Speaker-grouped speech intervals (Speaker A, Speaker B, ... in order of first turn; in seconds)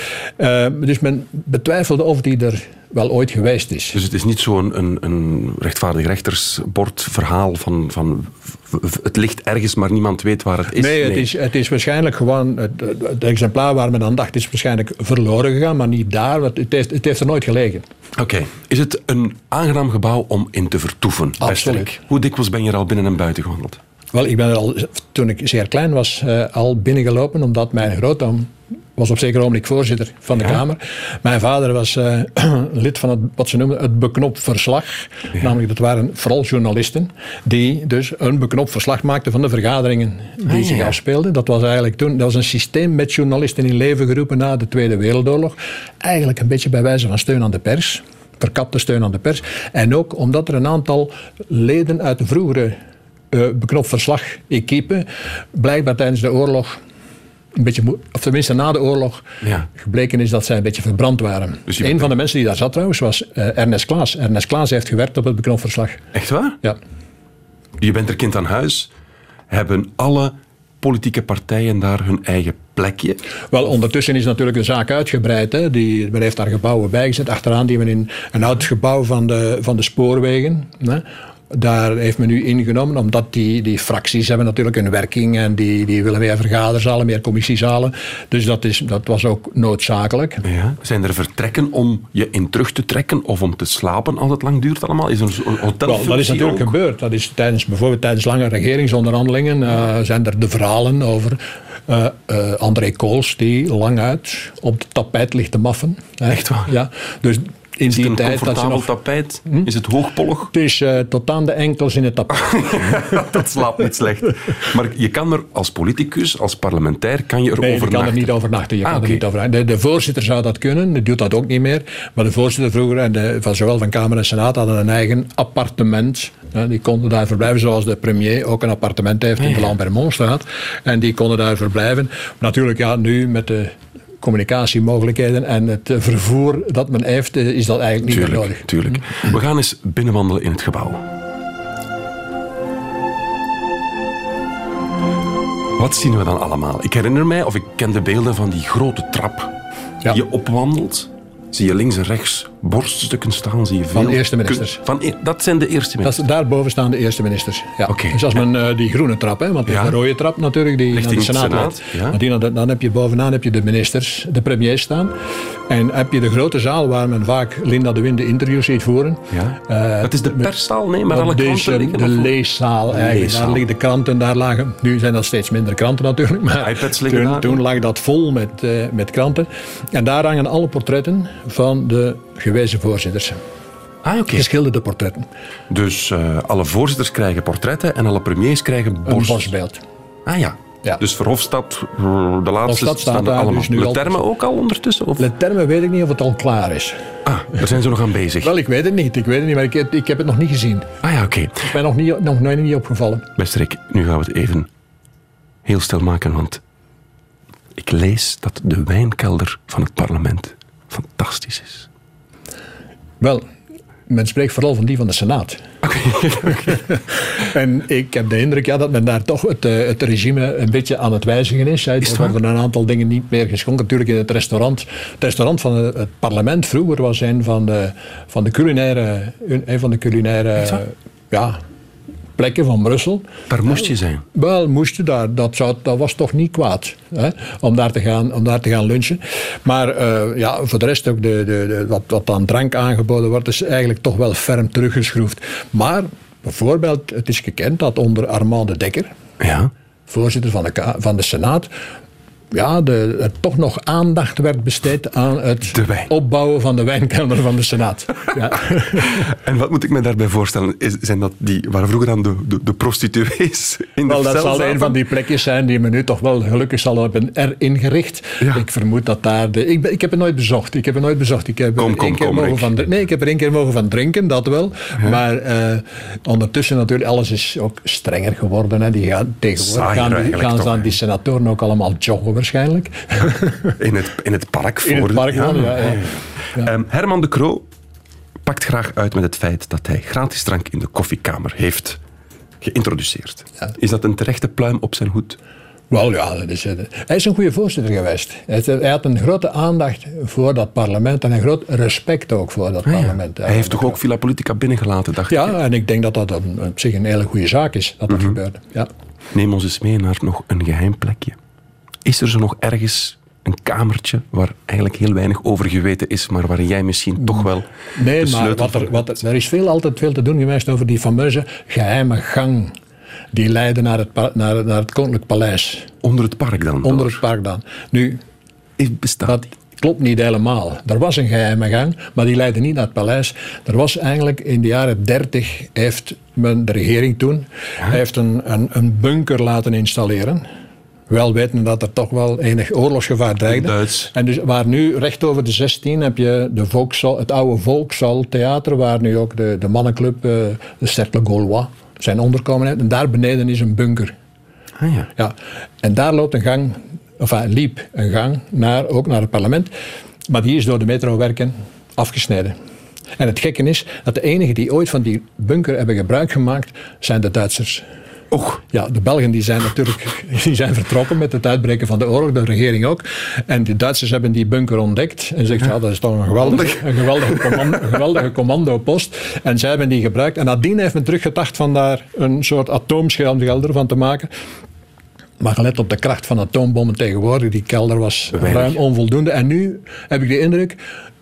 Speaker A: 0.4-4.0, 10.7-17.8, 21.4-21.9, 24.1-52.8, 53.3-56.8, 57.5-59.2, 59.7-66.0, 73.5-90.4, 95.8-108.9, 110.5-113.2, 117.6-138.7, 153.9-154.8, 156.0-165.1, 165.7-170.5, 171.1-183.4, 184.3-185.3, 189.1-189.8, 192.7-194.2, 195.2-197.6, 198.4-200.9, 201.6-203.3, 213.2-213.4, 214.1-215.7, 216.7-231.6, 232.4-233.3, 234.3-249.1, 250.1-251.7, 252.5-259.2, 264.0-283.8, 284.8-286.7, 295.9-304.0, 305.3-308.9, 317.2-322.7, 323.3-325.9, 326.8-328.2, 329.2-340.4, 341.1-354.1, 355.2-359.7, 360.3-362.6, 363.2-367.8, 368.7-384.3, 385.4-390.8
Speaker B: 3.9-11.3, 18.1-23.8, 40.4-41.0, 59.4-59.7, 61.7-62.1, 66.1-66.6, 67.8-68.9, 69.5-73.2, 90.4-96.7, 106.3-106.7, 107.9-110.5, 112.5-119.2, 129.4-129.7, 138.1-141.1, 145.8-149.5, 150.1-156.2, 157.8-158.4, 159.7-159.9, 160.9-162.2, 169.3-172.4, 172.9-173.6, 176.6-177.6, 184.0-184.5, 185.7-189.5, 190.2-195.3, 197.2-198.5, 201.0-201.7, 203.4-204.7, 205.6-206.6, 207.8-211.9, 215.8-216.8, 222.0-222.3, 233.5-234.2, 249.4-249.7, 255.7-256.1, 259.1-265.0, 271.8-272.7, 279.6-280.9, 283.8-287.6, 288.4-292.0, 292.6-295.4, 302.9-305.5, 308.1-308.4, 309.3-311.4, 312.0-319.1, 326.0-327.2, 328.8-329.4, 343.5-344.1, 354.8-355.1, 368.3-368.6, 376.4-377.7, 388.3-388.8